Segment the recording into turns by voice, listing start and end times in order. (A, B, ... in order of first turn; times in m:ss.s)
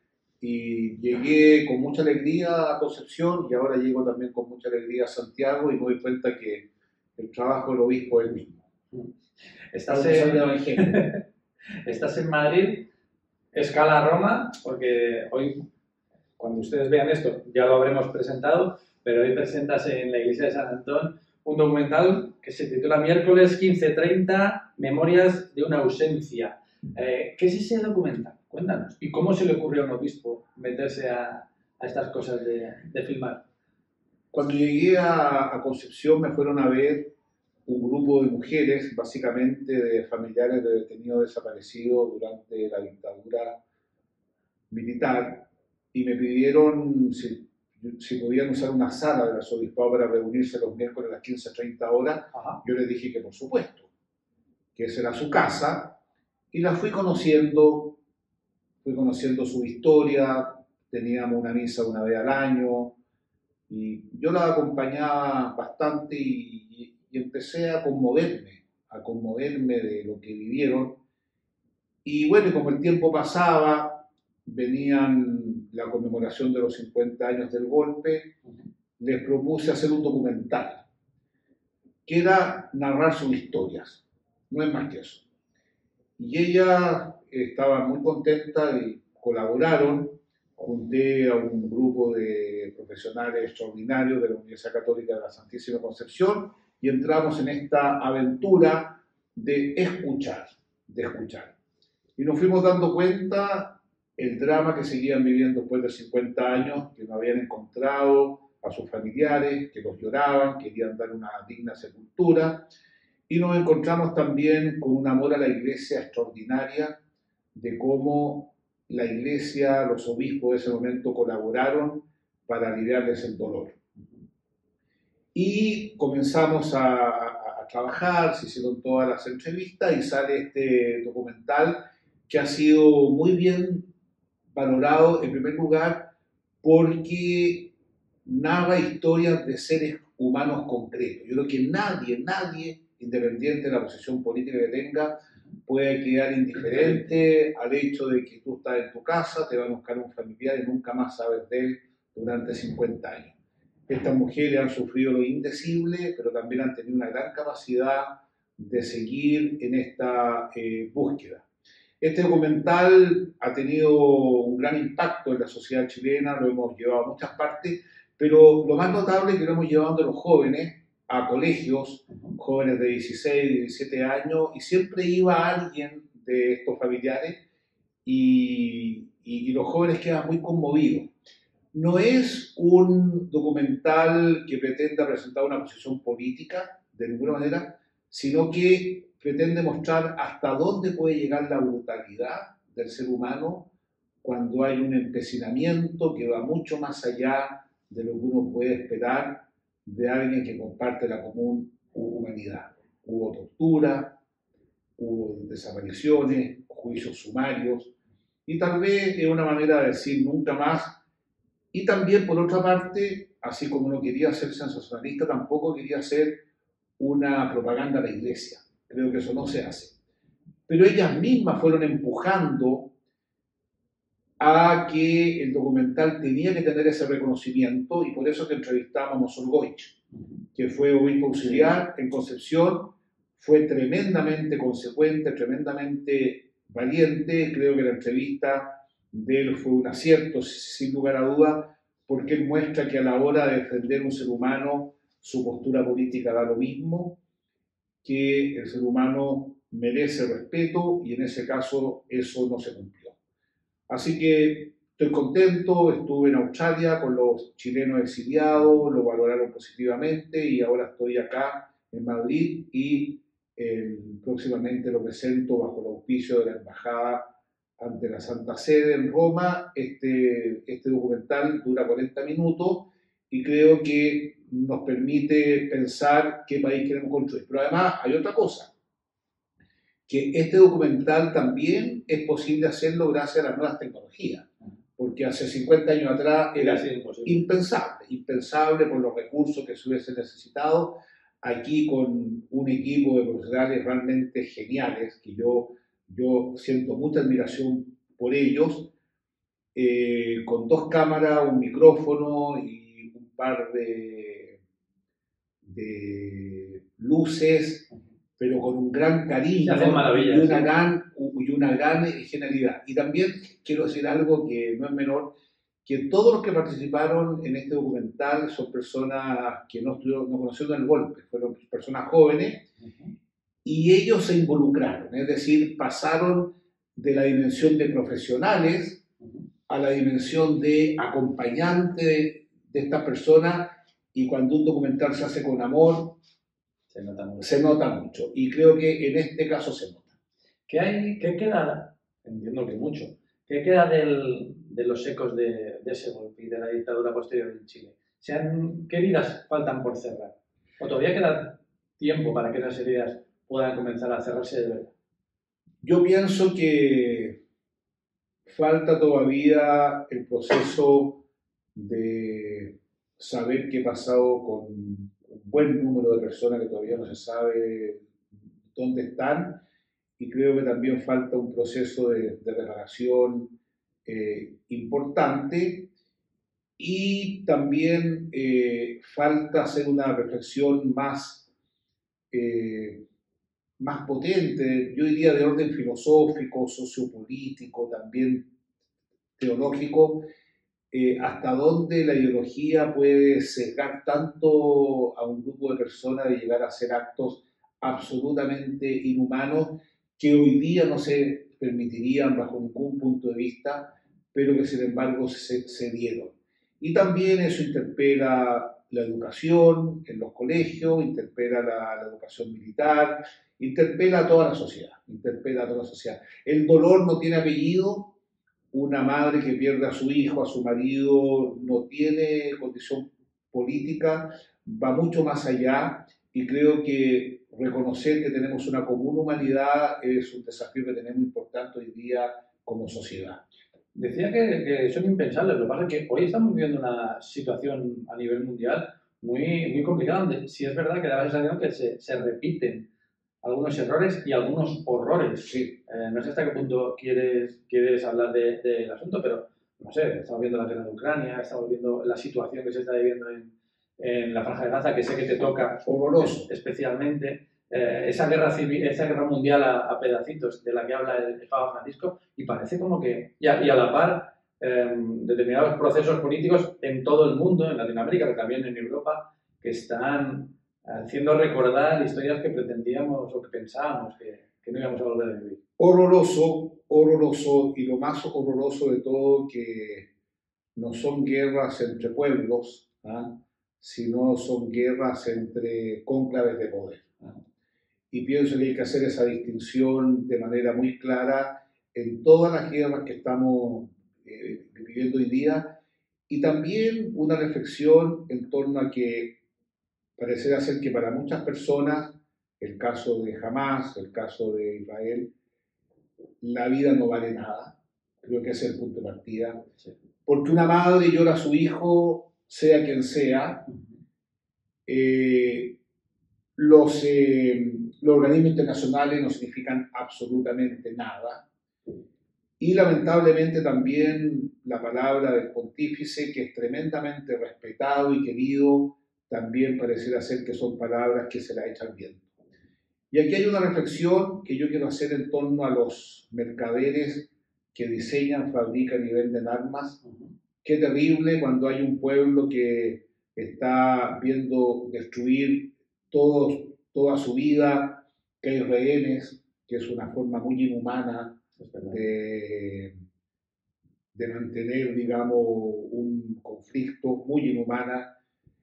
0:00.4-0:08.6 A
0:09.7-0:11.2 B
0:09.9-0:11.0 A
0:11.8-0:12.9 B
0:13.5-0:15.6 B
0:16.4-0:33.4 B
0:34.3-0:37.1 A
0:37.7-0:43.6 A
0:44.7-0:53.9 A
0:52.3-0:52.6 B
0:54.8-0:56.0 A
0:56.5-0:58.0 A
0:58.8-1:03.0 A
1:03.7-1:11.0 A
1:12.0-1:18.4 A
1:19.0-1:20.8 A
1:22.1-1:25.2 A
1:26.2-1:41.6 A
1:42.2-1:52.7 A
1:53.3-1:57.0 A
1:57.6-2:03.8 A
2:05.3-2:13.9 A
2:14.5-2:16.1 A
2:16.6-2:17.7 A
2:18.2-2:33.4 A
2:26.7-2:27.0 B
2:33.9-2:41.5 A
2:42.0-2:57.4 A
2:58.0-3:01.1 A
3:01.7-3:13.7 A
3:14.2-3:24.2 A
3:25.0-3:27.9 A
3:28.5-3:31.0 A
3:31.7-3:36.4 A
3:37.0-3:40.0 A
3:40.7-3:42.9 A
3:44.4-3:50.0 A
3:50.6-4:07.2 A
4:08.0-4:13.2 A
4:13.9-4:38.7 A
4:40.1-4:58.9 A
4:46.6-4:47.5 B
4:59.8-5:04.6 A
5:05.6-5:15.3 A
5:09.6-5:10.7 B
5:15.8-5:22.7 A
5:22.8-5:23.1 B
5:23.6-5:29.0 A
5:29.7-5:36.2 A
5:36.9-5:37.5 B
5:37.4-5:40.1 A
5:40.7-5:54.9 B
5:55.8-5:57.4 A
5:58.4-6:01.2 A
6:01.8-6:08.1 A
6:08.7-6:09.6 A
6:10.2-6:13.5 A
6:14.0-6:15.9 A
6:16.8-6:21.5 A
6:22.3-6:23.1 A
6:23.8-6:28.5 A
6:29.4-6:30.3 A
6:30.9-6:58.1 A
6:58.7-7:13.4 A
7:14.0-7:22.9 B
7:23.4-7:55.6 B
7:25.5-7:25.8 A
7:35.8-7:36.5 A
7:55.8-8:00.1 A
8:00.8-8:07.4 A
8:08.1-8:15.8 A
8:16.3-8:19.4 A
8:20.2-8:25.3 A
8:26.4-8:29.6 A
8:30.3-8:33.7 A
8:34.9-8:35.8 A
8:36.6-8:41.4 A
8:42.6-8:52.3 A
8:53.1-9:00.0 A
9:00.6-9:12.9 A
9:11.6-9:12.0 B
9:14.1-9:18.1 A